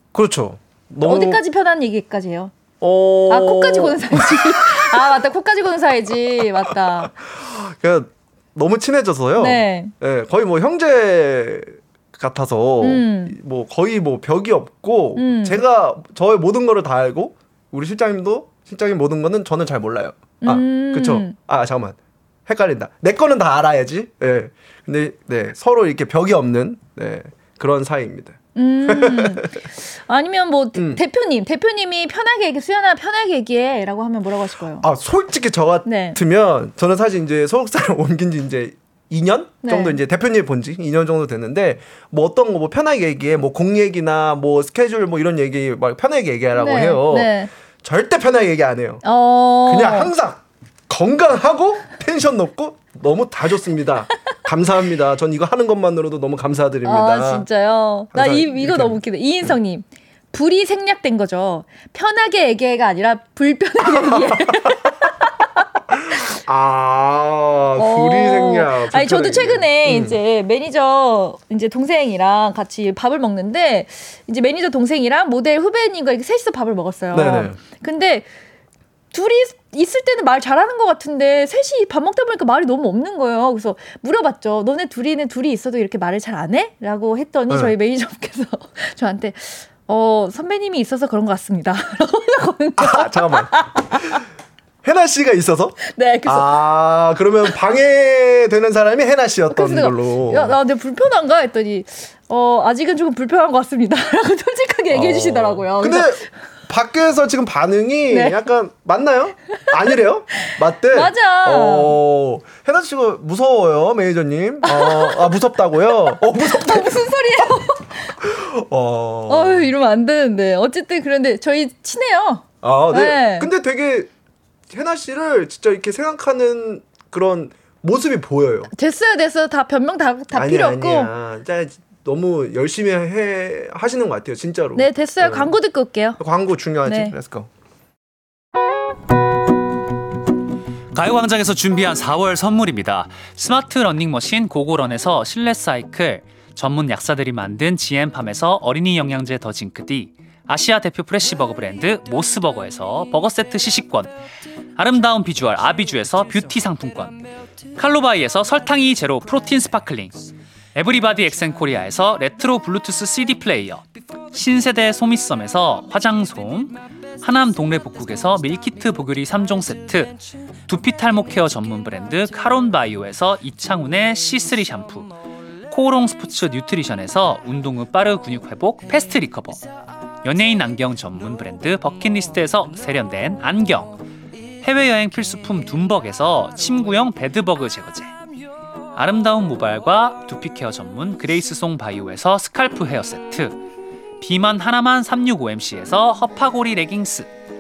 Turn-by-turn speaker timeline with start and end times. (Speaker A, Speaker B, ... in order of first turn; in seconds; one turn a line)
Speaker A: 0.1-1.4
Speaker B: 1.1-2.5
Speaker A: 2.8-5.0
Speaker B: 3.3-7.1
Speaker A: 7.2-29.5
Speaker B: 9.4-9.9
Speaker B: 12.8-13.3
Speaker B: 15.2-15.6
Speaker B: 20.4-21.3
Speaker B: 28.5-34.8
Speaker A: 30.7-31.0
Speaker A: 34.8-49.0
Speaker B: 35.8-36.2
Speaker B: 39.6-40.0
Speaker B: 46.5-47.5
Speaker B: 49.0-50.1
Speaker A: 49.6-57.5
Speaker B: 56.8-65.0
Speaker A: 58.1-59.5
Speaker A: 63.9-64.8
Speaker A: 65.9-70.2
Speaker B: 67.8-78.2
Speaker A: 77.1-77.6
Speaker B: 79.1-94.2
Speaker A: 87.5-87.7
Speaker A: 92.8-94.2
Speaker A: 94.8-100.5
Speaker B: 95.9-96.6
Speaker B: 99.5-106.2
Speaker A: 104.9-117.5
Speaker B: 108.1-108.4
Speaker B: 110.9-112.0
Speaker B: 114.6-115.3
Speaker B: 115.9-118.1
Speaker A: 118.2-119.7
Speaker B: 119.3-123.5
Speaker A: 122.6-124.1
Speaker A: 124.7-128.7
Speaker B: 128.7-131.1
Speaker A: 130.3-135.5
Speaker B: 134.7-136.2
Speaker A: 136.2-137.5
Speaker B: 136.8-137.1
Speaker C: 140.9-154.1
Speaker C: 154.8-157.2
Speaker C: 157.8-160.2
Speaker C: 160.7-175.1
Speaker C: 175.7-179.6
Speaker C: 180.2-184.0
Speaker C: 184.6-188.1
Speaker C: 188.9-193.6
Speaker C: 194.2-197.3